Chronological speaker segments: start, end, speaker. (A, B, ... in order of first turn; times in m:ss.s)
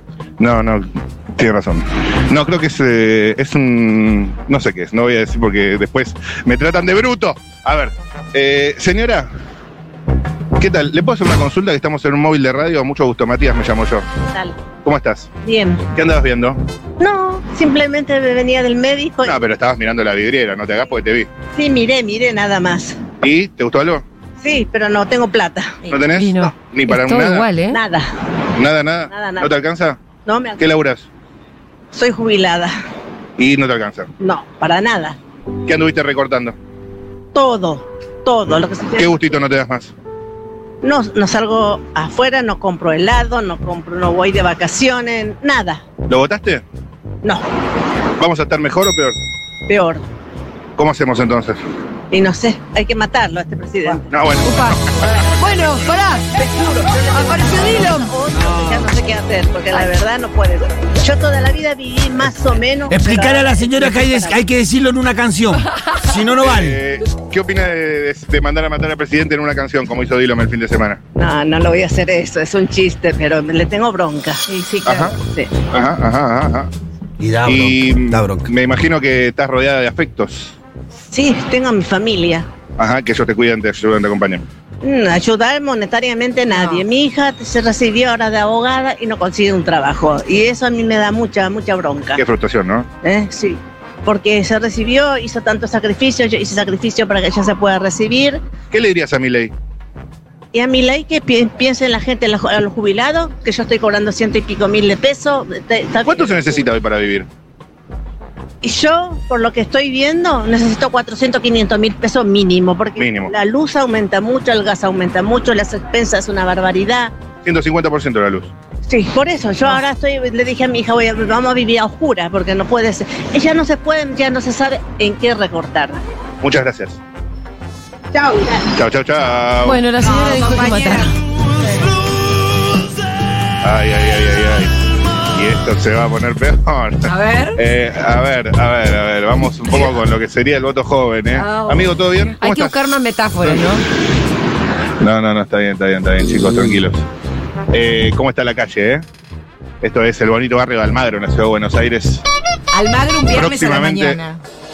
0:00.4-0:09.3 A
0:10.6-0:14.1 A
0:14.3-0:14.6 B
0:14.8-0:15.3 A
0:15.4-0:15.9 B
0:15.9-0:16.6 A
0:17.0-0:19.4 B
0:19.2-0:21.3 A
0:21.5-0:23.0 B
0:23.2-0:24.0 A
0:24.4-0:26.0 B
0:25.9-0:27.6 A
0:26.1-0:27.8 C
0:27.7-0:28.0 B
0:28.6-0:30.0 A
0:29.1-0:29.6 B
0:30.2-0:30.7 B
0:30.6-0:31.1 A
0:31.9-0:32.7 B
0:33.4-0:34.1 A
0:34.2-0:35.2 B
0:35.7-0:36.6 A
0:37.3-0:39.4 B
0:39.0-0:39.9 A
0:40.8-0:45.8 B
0:46.1-0:46.6 A
0:48.2-0:49.2 A
0:49.7-0:50.0 B
0:50.8-0:51.6 A
0:52.1-0:54.0 B
0:54.1-0:55.8 A
0:54.4-0:54.8 C
0:55.4-0:56.3 C
0:56.3-1:04.4 B
0:57.1-0:58.1 C
1:02.9-1:06.8 D
1:06.4-1:11.0 A
1:11.2-1:15.6 B
1:14.5-1:15.0 E
1:14.8-1:15.1 A
1:15.7-1:16.7 A
1:17.2-1:18.5 D
1:17.5-1:20.6 A
1:21.1-1:22.5 B
1:22.8-1:24.4 A
1:24.8-1:32.2 B
1:26.5-1:26.8 C
1:32.2-1:32.9 A
1:33.0-1:38.4 B
1:38.7-1:39.5 A
1:40.5-1:46.6 B
1:46.0-1:47.3 A
1:48.6-1:57.1 B
1:53.0-1:53.3 A
1:57.4-1:58.5 A
1:58.9-2:06.0 B
2:06.4-2:07.0 A
2:08.8-2:09.8 A
2:09.6-2:11.1 C
2:10.0-2:11.1 E
2:13.6-2:14.7 A
2:15.3-2:22.9 A
2:17.1-2:17.6 E
2:19.6-2:20.0 E
2:21.3-2:22.0 E
2:22.4-2:23.8 C
2:25.0-2:27.0 A
2:27.7-2:29.0 A
2:29.8-2:32.2 A
2:32.7-2:34.4 E
2:33.3-2:34.3 A